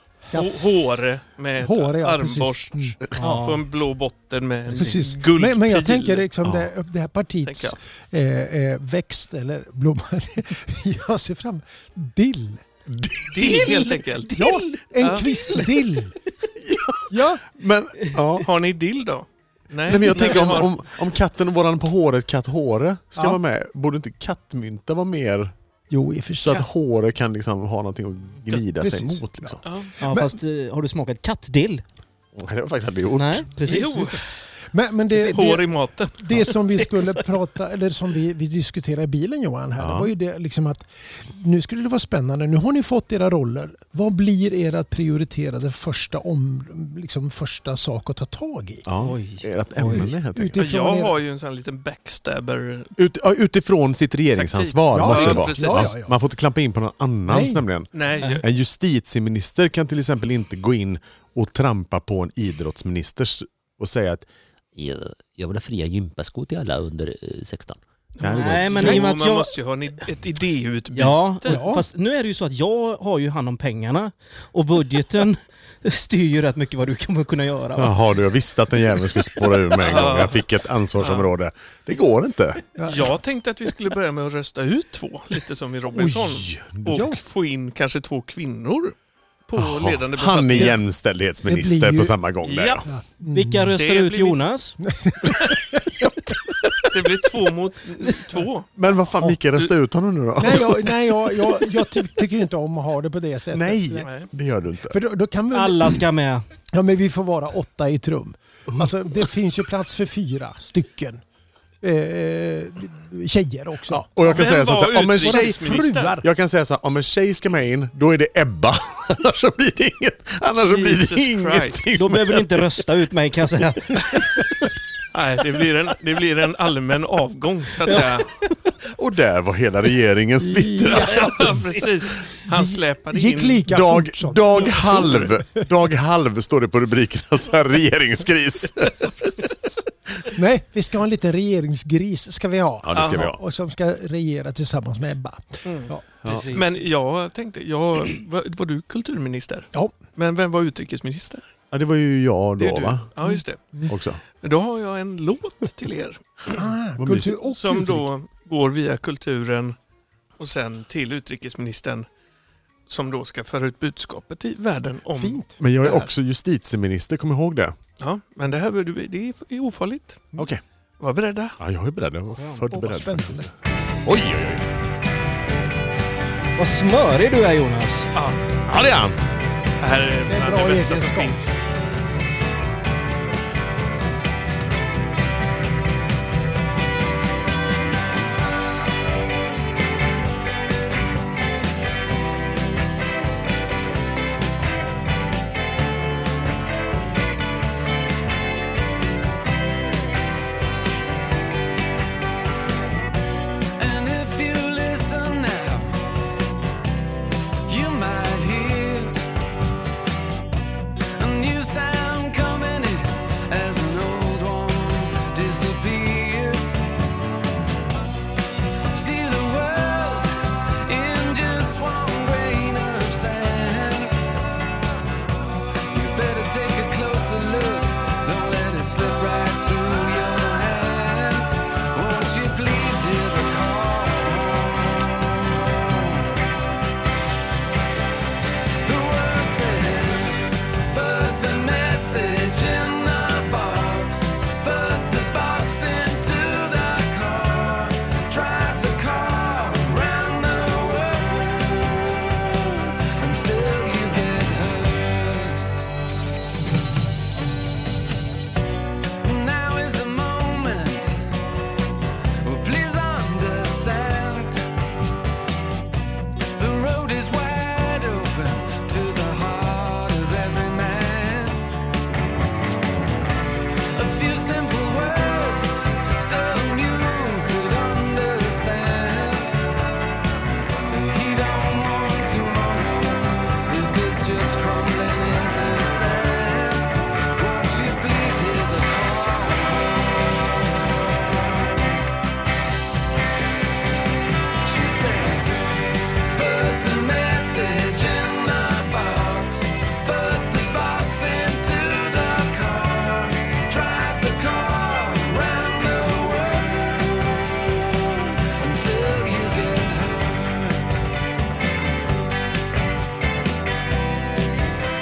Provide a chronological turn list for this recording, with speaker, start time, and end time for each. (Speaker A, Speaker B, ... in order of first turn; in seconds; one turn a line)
Speaker A: 0.3-6.3
Speaker B: 1.6-3.5
Speaker C: 3.2-3.6
Speaker C: 4.7-5.1
Speaker B: 4.7-12.6
Speaker D: 6.4-6.7
Speaker A: 7.4-7.8
Speaker D: 12.9-13.7
Speaker A: 13.3-15.8
Speaker B: 13.5-16.2
Speaker C: 14.3-14.7
Speaker D: 16.6-18.5
Speaker B: 17.1-17.4
Speaker C: 18.0-18.4
Speaker A: 18.4-20.8
Speaker D: 19.9-25.5
Speaker B: 25.9-26.6
Speaker D: 26.4-29.6
Speaker B: 28.6-30.3
Speaker A: 29.6-29.9
Speaker C: 30.0-31.8
Speaker D: 32.4-33.5
Speaker C: 33.2-34.2
Speaker A: 33.7-34.3
Speaker B: 34.7-48.9
Speaker C: 35.1-35.5
Speaker A: 35.2-36.5
Speaker C: 36.5-37.3
Speaker D: 39.8-40.1
Speaker D: 48.9-50.6
Speaker C: 49.0-50.1
Speaker B: 49.8-51.2
Speaker A: 50.6-52.9
Speaker D: 53.0-64.3
Speaker A: 54.3-56.0
Speaker B: 54.9-56.1
Speaker B: 57.3-57.6
Speaker A: 57.9-58.5
Speaker E: 64.8-67.8
Speaker A: 68.2-71.6
Speaker D: 68.2-69.1
Speaker C: 68.3-69.5
Speaker C: 70.9-78.0
Speaker B: 71.5-71.9
Speaker D: 77.8-82.6
Speaker A: 79.8-81.3
Speaker B: 82.8-83.1
Speaker A: 82.9-89.0
Speaker D: 85.9-87.1
Speaker B: 86.9-87.2
Speaker A: 89.5-90.8
Speaker D: 89.6-92.9
Speaker B: 91.5-92.2
Speaker A: 92.4-92.8
Speaker B: 92.9-93.7
Speaker C: 93.3-94.8
Speaker A: 93.8-94.4
Speaker B: 94.8-96.5
Speaker D: 96.7-96.9
Speaker A: 96.9-98.7
Speaker D: 98.8-101.3
Speaker B: 100.4-104.1
Speaker D: 103.5-105.0
Speaker A: 104.0-104.3
Speaker B: 104.9-106.0
Speaker C: 105.5-106.5
Speaker B: 106.7-111.2
Speaker B: 111.8-114.6
Speaker D: 113.9-122.7
Speaker A: 114.3-116.2
Speaker B: 115.2-116.3
Speaker A: 120.6-121.9
Speaker C: 121.9-124.2
Speaker A: 125.1-128.3
Speaker D: 127.9-128.2
Speaker D: 128.8-131.6
Speaker B: 130.4-131.8
Speaker A: 130.8-133.7
Speaker B: 132.5-135.4
Speaker D: 133.7-139.5
Speaker A: 134.9-135.3
Speaker B: 140.3-146.0
Speaker D: 142.8-143.4
Speaker A: 142.9-143.3
Speaker A: 145.7-151.4
Speaker D: 146.2-146.5
Speaker C: 146.3-146.7
Speaker D: 151.7-153.1
Speaker A: 152.6-153.9
Speaker B: 153.2-153.9
Speaker D: 153.9-154.2
Speaker A: 154.4-156.6
Speaker B: 156.5-158.0
Speaker D: 157.0-157.5
Speaker A: 157.4-159.8
Speaker A: 160.4-162.1
Speaker A: 162.9-165.4
Speaker B: 165.1-166.0
Speaker D: 165.6-167.8
Speaker A: 168.0-170.3
Speaker A: 171.0-171.6
Speaker D: 171.6-173.5
Speaker B: 172.7-173.5
Speaker D: 174.0-174.7
Speaker C: 176.6-178.1
Speaker A: 178.2-178.4
Speaker D: 178.7-179.2
Speaker A: 179.8-181.5
Speaker B: 180.3-181.4
Speaker F: 203.8-206.0
Speaker F: 207.7-209.2
Speaker F: 211.2-216.8
Speaker F: 218.9-220.3
Speaker F: 220.8-224.1
Speaker F: 225.9-236.1
Speaker F: 238.8-255.7
Speaker F: 259.2-261.2
Speaker F: 262.4-264.6
Speaker F: 266.6-271.6
Speaker F: 273.9-279.5
Speaker F: 280.9-290.0
Speaker F: 291.1-291.9
Speaker F: 294.6-295.6
Speaker F: 296.3-310.9